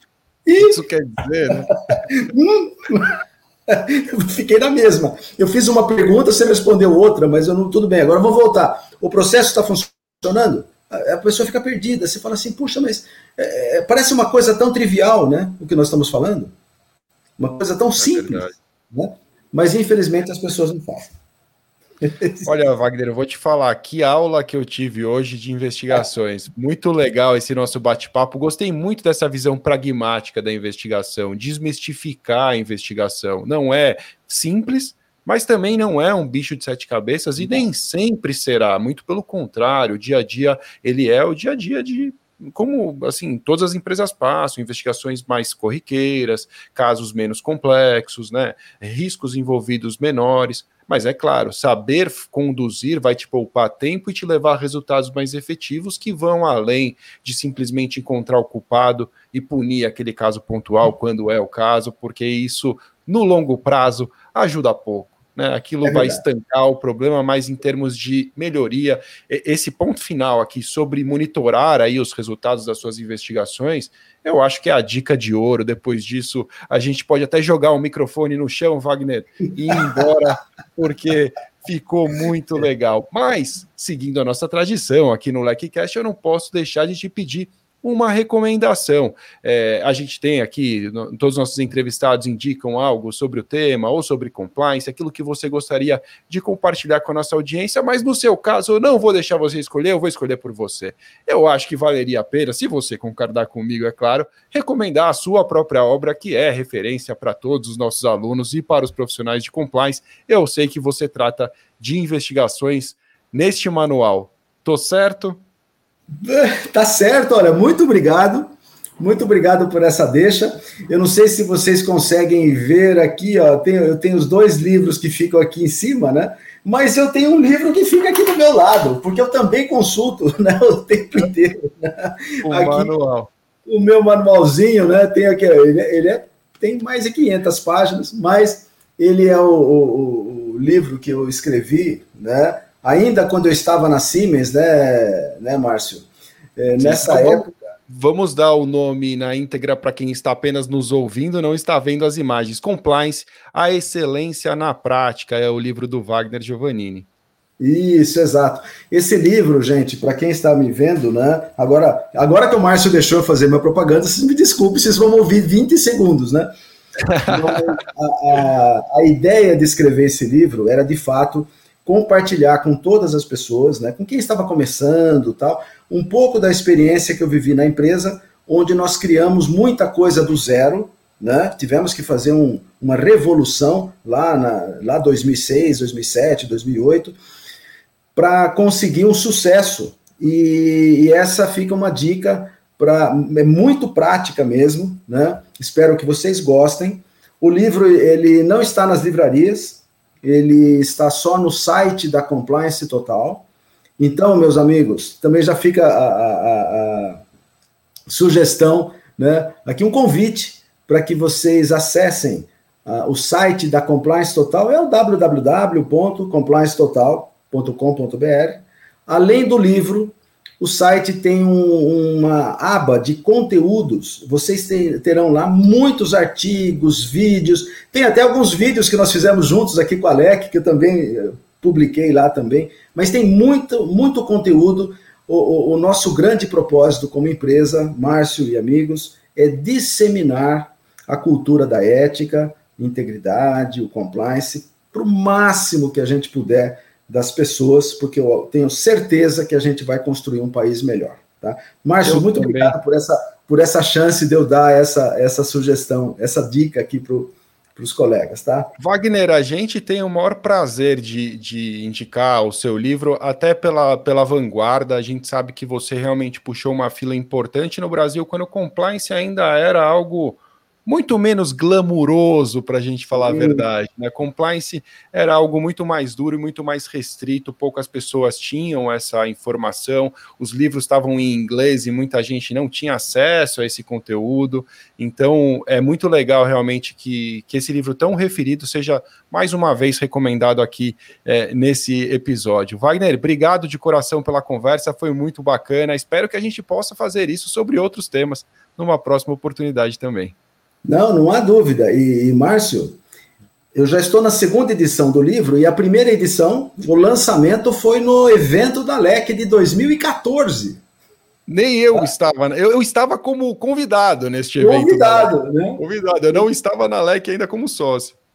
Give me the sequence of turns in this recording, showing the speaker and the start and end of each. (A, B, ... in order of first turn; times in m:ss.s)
0:00.4-0:00.8 A
0:00.6-0:01.7 B
0:01.9-0:16.5 A
0:17.4-0:21.1 A
0:18.0-0:18.6 B
0:22.0-0:22.5 A
0:22.4-1:55.4 B
1:05.8-1:06.2 A
1:56.2-2:12.9 A
2:12.4-2:13.3 B
2:13.6-2:27.5 A
2:26.8-2:37.1 B
2:37.6-2:46.5 A
2:47.0-2:47.7 B
2:47.3-3:07.2 A
3:08.1-3:23.5 A
3:24.0-3:27.2 A
3:28.1-4:18.7 A
4:12.0-4:12.8 B
4:18.8-5:00.4 B
4:33.1-4:33.7 A
5:00.8-5:03.0 A
5:03.7-5:10.8 A
5:11.5-5:18.2 B
5:14.6-5:16.5 A